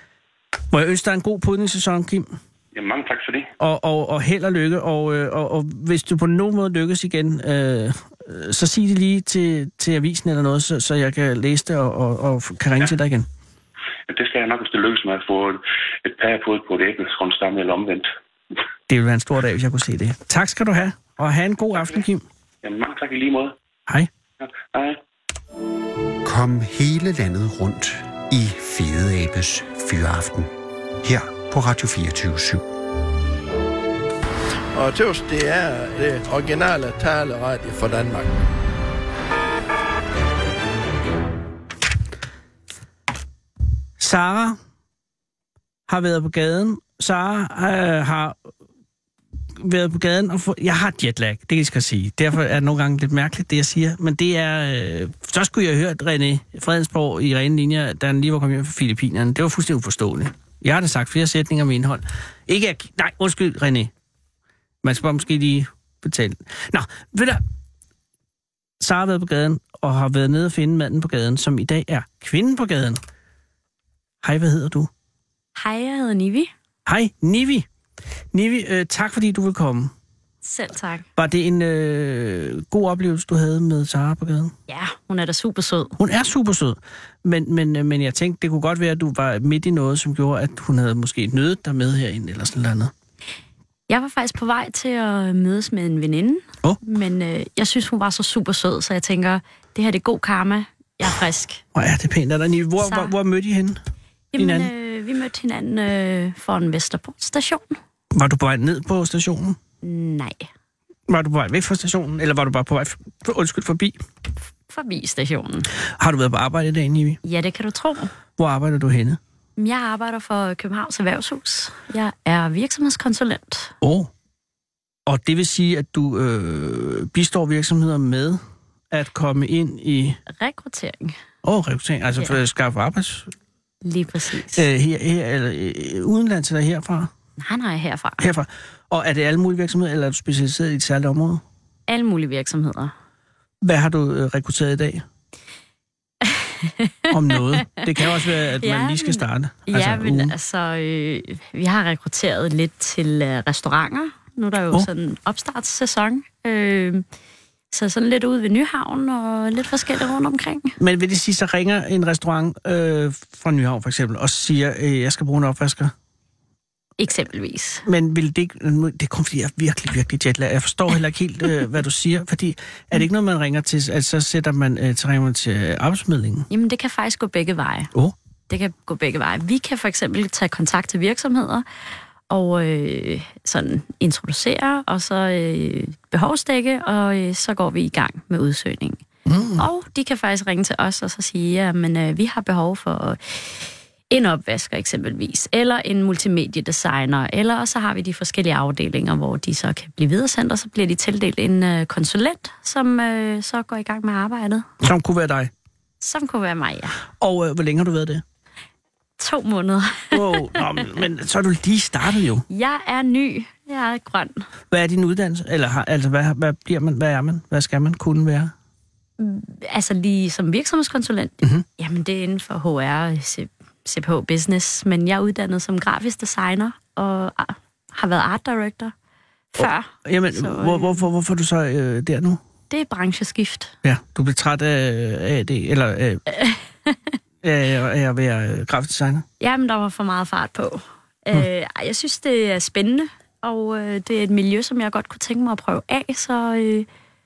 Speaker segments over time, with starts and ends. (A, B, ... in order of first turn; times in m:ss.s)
0:00.7-0:02.3 A
0:02.7-0:03.5 B
0:03.6-0:13.3 A
0:14.1-0:18.1 B
0:18.9-0:22.2 A
0:21.8-0:22.0 B
0:22.6-0:23.6 B
0:24.4-0:25.0 B
0:26.2-0:32.6 C
0:34.8-0:38.3 D
0:44.0-0:44.6 A
0:45.9-0:48.4 A
0:49.6-1:03.9 A
1:04.8-1:07.4 A
1:08.8-1:13.0 A
1:14.2-1:14.9 A
1:15.6-1:16.5 E
1:16.9-1:17.7 A
1:18.3-1:19.9 A
1:20.4-1:21.0 E
1:21.2-1:24.5 A
1:24.7-1:26.0 E
1:26.0-1:32.9 A
1:33.9-1:41.6 E
1:41.7-1:43.8 A
1:42.8-1:43.1 E
1:44.3-1:47.8 E
1:44.4-1:44.7 A
1:48.1-1:49.6 A
1:49.8-1:50.5 E
1:51.1-1:54.0 A
1:54.7-1:55.7 E
1:56.0-1:57.2 A
1:57.2-1:58.1 E
1:58.4-1:59.2 A
1:59.6-2:03.8 E
2:03.8-2:04.1 A
2:05.1-2:08.4 A
2:08.9-2:10.2 A
2:10.3-2:11.2 E
2:11.4-2:13.3 A
2:13.8-2:14.7 E
2:14.6-2:17.1 A
2:17.4-2:18.3 E
2:18.2-2:21.4 A
2:21.9-2:22.9 E
2:23.6-2:25.0 A
2:26.2-2:37.0 E
2:27.1-2:30.3 A
2:37.7-2:40.8 E
2:40.8-2:45.9 A
2:47.0-2:47.8 E
2:47.8-2:56.5 A
2:56.5-2:57.9 E
2:58.5-3:01.7 E
3:02.3-3:09.0 E
3:09.3-3:09.6 A
3:09.6-3:24.7 E
3:24.8-3:25.5 A
3:26.0-3:27.0 E
3:27.2-3:28.2 A
3:29.2-3:30.9 E
3:30.1-3:32.4 A
3:32.5-3:34.5 E
3:34.7-3:38.5 A
3:39.2-3:48.9 E
3:49.5-3:51.0 E
3:49.6-3:52.4 A
3:52.7-3:53.7 E
3:53.8-3:56.2 A
3:56.3-3:57.2 E
3:57.4-3:59.2 A
3:59.4-4:06.9 E